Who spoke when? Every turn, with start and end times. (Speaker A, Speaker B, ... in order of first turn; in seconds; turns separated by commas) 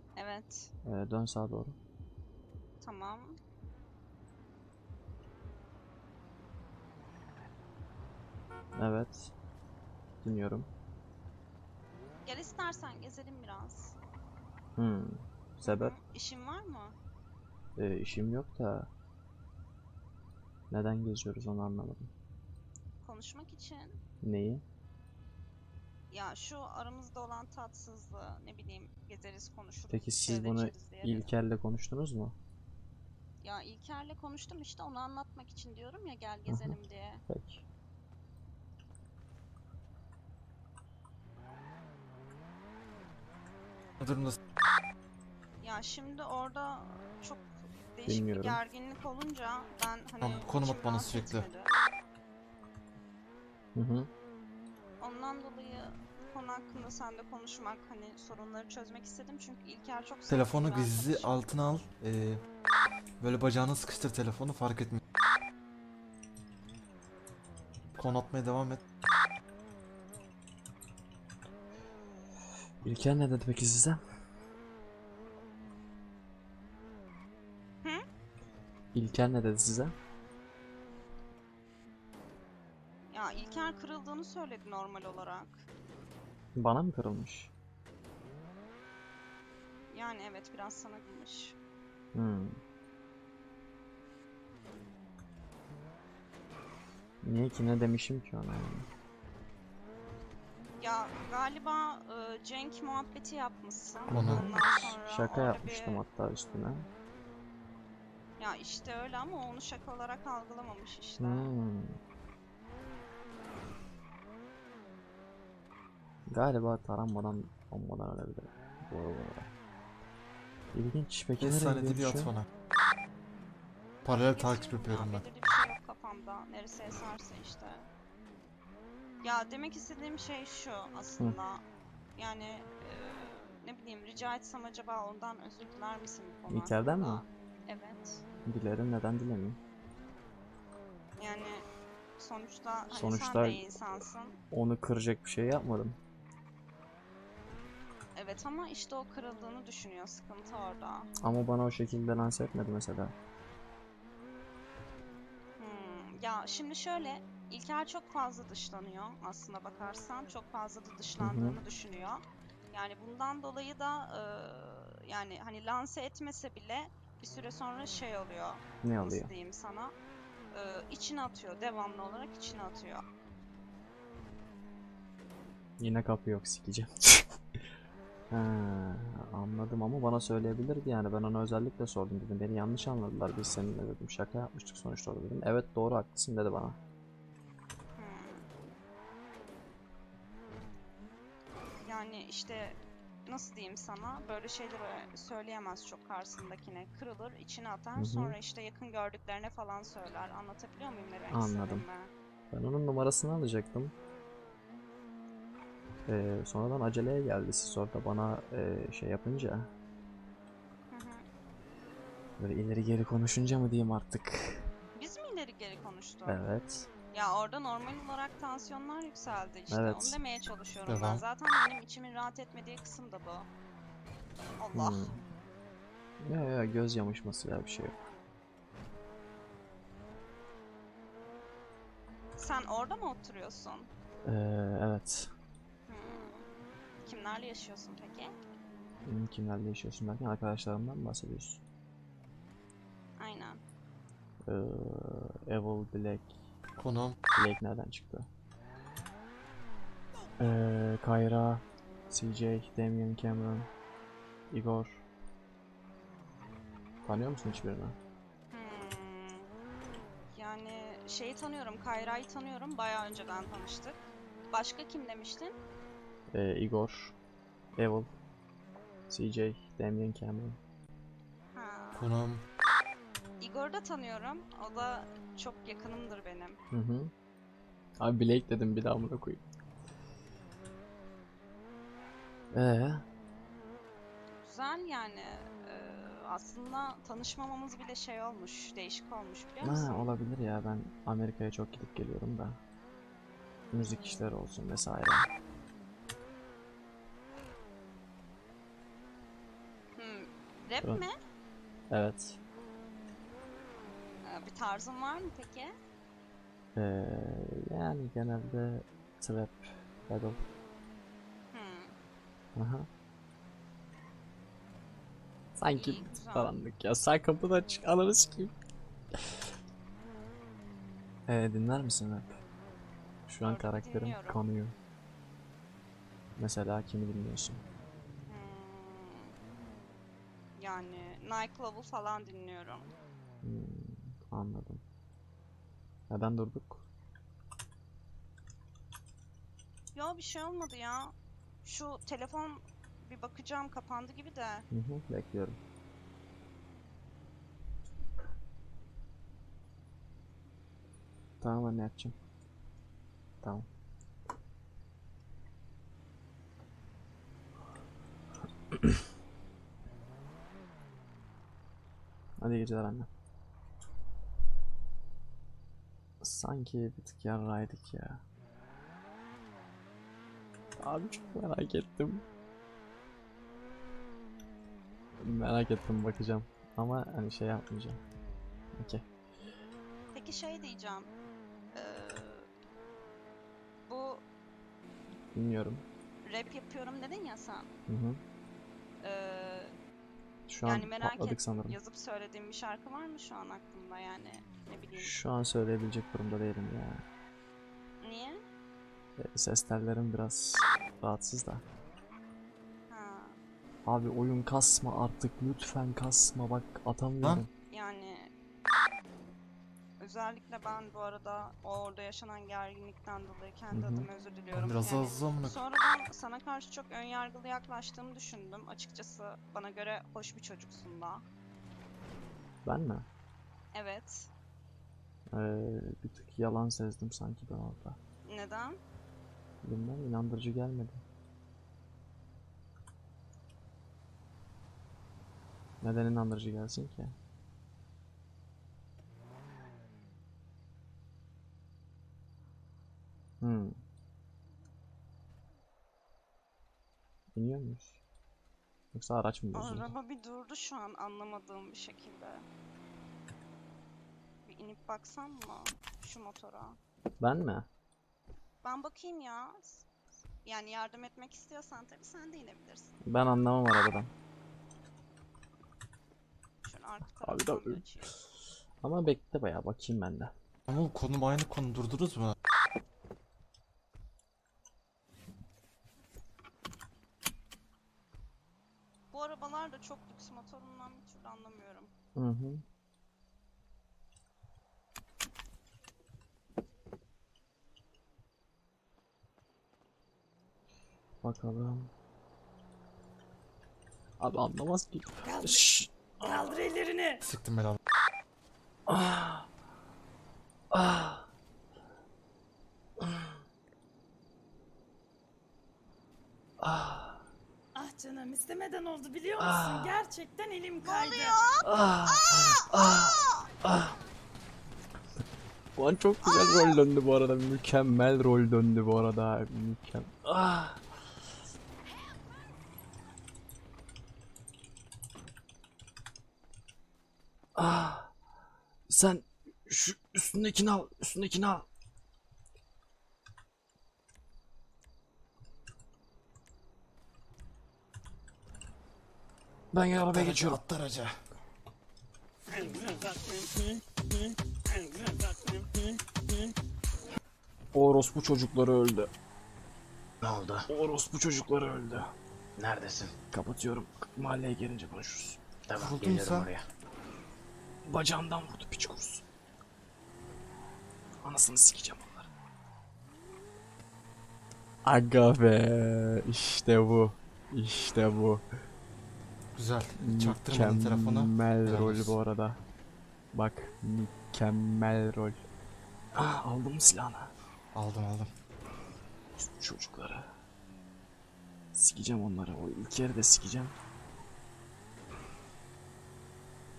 Speaker A: 0.2-0.7, Speaker B: 0.9-1.8, Speaker A: 2.8-3.4, Speaker B: 8.8-9.3, Speaker B: 10.2-10.7, Speaker A: 12.2-13.9, Speaker B: 14.8-16.0, Speaker A: 15.7-17.0, Speaker B: 17.8-18.9, Speaker B: 20.7-22.1, Speaker A: 23.0-24.0, Speaker B: 24.2-24.6, Speaker A: 26.1-31.3, Speaker B: 29.9-32.4, Speaker A: 33.4-37.2, Speaker B: 36.5-36.8, Speaker B: 37.3-37.6, Speaker C: 44.0-44.4, Speaker A: 45.6-51.7, Speaker B: 48.1-48.6, Speaker C: 50.2-51.5, Speaker B: 53.8-54.1, Speaker A: 55.0-61.4, Speaker C: 60.3-62.5, Speaker C: 63.2-65.0, Speaker C: 68.0-68.8, Speaker B: 72.8-74.0, Speaker B: 78.9-79.9, Speaker A: 83.1-85.7, Speaker B: 86.5-87.5, Speaker A: 89.9-91.6, Speaker B: 92.1-92.6, Speaker B: 97.2-98.9, Speaker A: 100.8-106.0, Speaker B: 104.1-106.9, Speaker C: 104.1-104.5, Speaker A: 108.4-111.5, Speaker B: 111.2-112.0, Speaker B: 116.3-119.5, Speaker B: 120.7-122.3, Speaker C: 121.4-122.5, Speaker C: 124.0-125.2, Speaker A: 124.3-127.9, Speaker A: 129.2-131.6, Speaker A: 132.2-138.2, Speaker B: 136.5-137.2, Speaker B: 138.5-139.6, Speaker A: 141.2-141.7, Speaker A: 142.2-144.4, Speaker B: 142.9-143.7, Speaker B: 144.5-146.0, Speaker A: 148.2-151.1, Speaker B: 151.2-153.1, Speaker A: 155.6-169.9, Speaker B: 161.2-161.6, Speaker B: 168.8-169.3, Speaker A: 170.5-173.0, Speaker B: 175.8-177.6, Speaker B: 178.3-186.8, Speaker A: 188.0-188.5, Speaker A: 191.8-202.1, Speaker B: 198.0-198.4, Speaker B: 201.3-201.9, Speaker B: 202.5-203.9, Speaker B: 206.1-209.7, Speaker A: 210.9-211.2, Speaker B: 212.4-214.7, Speaker A: 215.0-216.5, Speaker B: 216.3-216.9, Speaker A: 217.1-223.5, Speaker B: 219.7-220.2, Speaker C: 220.9-221.2, Speaker A: 224.6-225.2, Speaker B: 224.7-225.2, Speaker B: 226.2-228.0, Speaker A: 232.4-233.9, Speaker B: 234.3-235.3, Speaker A: 235.9-236.5, Speaker A: 237.1-238.3, Speaker B: 239.1-241.6, Speaker A: 243.2-243.6, Speaker B: 244.5-246.3, Speaker C: 246.8-247.2, Speaker B: 247.3-248.3, Speaker B: 250.4-253.7, Speaker B: 254.5-255.1, Speaker B: 257.0-258.0, Speaker A: 258.5-259.5, Speaker A: 260.3-265.6, Speaker B: 266.3-267.2, Speaker B: 267.8-268.1, Speaker B: 269.1-270.6, Speaker A: 271.6-272.1, Speaker C: 271.9-272.5, Speaker A: 273.4-276.6, Speaker B: 276.7-277.1, Speaker B: 278.0-279.4, Speaker B: 282.5-283.0, Speaker A: 284.4-290.1, Speaker B: 289.6-292.6, Speaker B: 293.7-295.3, Speaker A: 300.0-301.1, Speaker B: 300.8-301.1, Speaker B: 301.9-302.4, Speaker A: 304.2-305.7, Speaker B: 306.8-310.4, Speaker A: 311.5-312.0, Speaker B: 312.6-312.9, Speaker B: 315.6-318.6, Speaker A: 315.7-316.5, Speaker B: 321.3-322.4, Speaker B: 323.3-324.8, Speaker A: 323.4-324.4, Speaker B: 326.4-327.6, Speaker A: 328.3-329.4, Speaker A: 330.6-332.9, Speaker B: 333.4-334.8, Speaker B: 336.1-336.9, Speaker A: 339.9-344.7, Speaker B: 344.7-345.6, Speaker B: 351.4-352.2, Speaker B: 362.4-363.1, Speaker B: 366.2-368.2, Speaker B: 370.8-372.2, Speaker B: 375.2-378.0, Speaker B: 378.8-379.0, Speaker A: 380.1-381.1, Speaker A: 381.7-382.5, Speaker A: 383.9-384.2, Speaker B: 385.3-385.8, Speaker A: 386.3-387.7, Speaker B: 387.9-388.2, Speaker A: 389.0-389.8, Speaker B: 390.5-391.8, Speaker A: 390.6-395.2, Speaker B: 395.0-397.0, Speaker A: 398.0-398.4, Speaker B: 399.2-401.6, Speaker A: 402.9-403.4, Speaker B: 403.8-407.5, Speaker A: 407.7-408.3, Speaker A: 410.0-421.2, Speaker B: 413.7-414.1, Speaker C: 414.5-415.6, Speaker B: 422.6-423.1, Speaker A: 423.7-424.3, Speaker B: 425.3-428.0, Speaker A: 428.3-428.8, Speaker B: 429.6-431.0, Speaker B: 435.8-437.2, Speaker B: 443.4-443.8, Speaker B: 447.3-448.0, Speaker B: 448.9-449.9, Speaker A: 449.5-452.4, Speaker A: 454.4-456.8, Speaker B: 457.2-457.7, Speaker A: 458.6-459.9, Speaker A: 460.4-462.9, Speaker B: 463.1-464.1, Speaker A: 466.6-468.1, Speaker B: 467.2-467.8, Speaker B: 468.8-470.3, Speaker C: 470.7-472.4, Speaker A: 479.1-481.9, Speaker B: 482.2-482.6, Speaker B: 491.2-491.9, Speaker B: 494.2-496.6, Speaker D: 495.2-495.7, Speaker D: 496.2-497.2, Speaker C: 497.2-497.8, Speaker B: 498.9-499.5, Speaker B: 500.7-501.3, Speaker B: 503.0-503.3, Speaker B: 506.6-507.2, Speaker D: 507.8-511.5, Speaker B: 509.4-510.0, Speaker A: 510.9-511.4, Speaker B: 511.6-514.0, Speaker B: 515.8-520.8, Speaker B: 527.5-528.1, Speaker B: 528.9-531.7, Speaker B: 539.7-540.6, Speaker C: 540.0-541.2, Speaker B: 547.7-549.1, Speaker E: 550.2-550.7, Speaker B: 550.7-552.1, Speaker E: 552.6-553.1, Speaker B: 553.3-555.4, Speaker E: 555.7-556.6, Speaker C: 555.7-556.5, Speaker B: 557.9-559.2, Speaker B: 561.2-562.3, Speaker B: 564.8-568.4, Speaker C: 569.5-572.1, Speaker B: 570.0-572.6, Speaker B: 573.3-575.4, Speaker B: 576.1-577.3, Speaker C: 577.7-578.3, Speaker B: 579.4-580.3, Speaker B: 581.7-583.8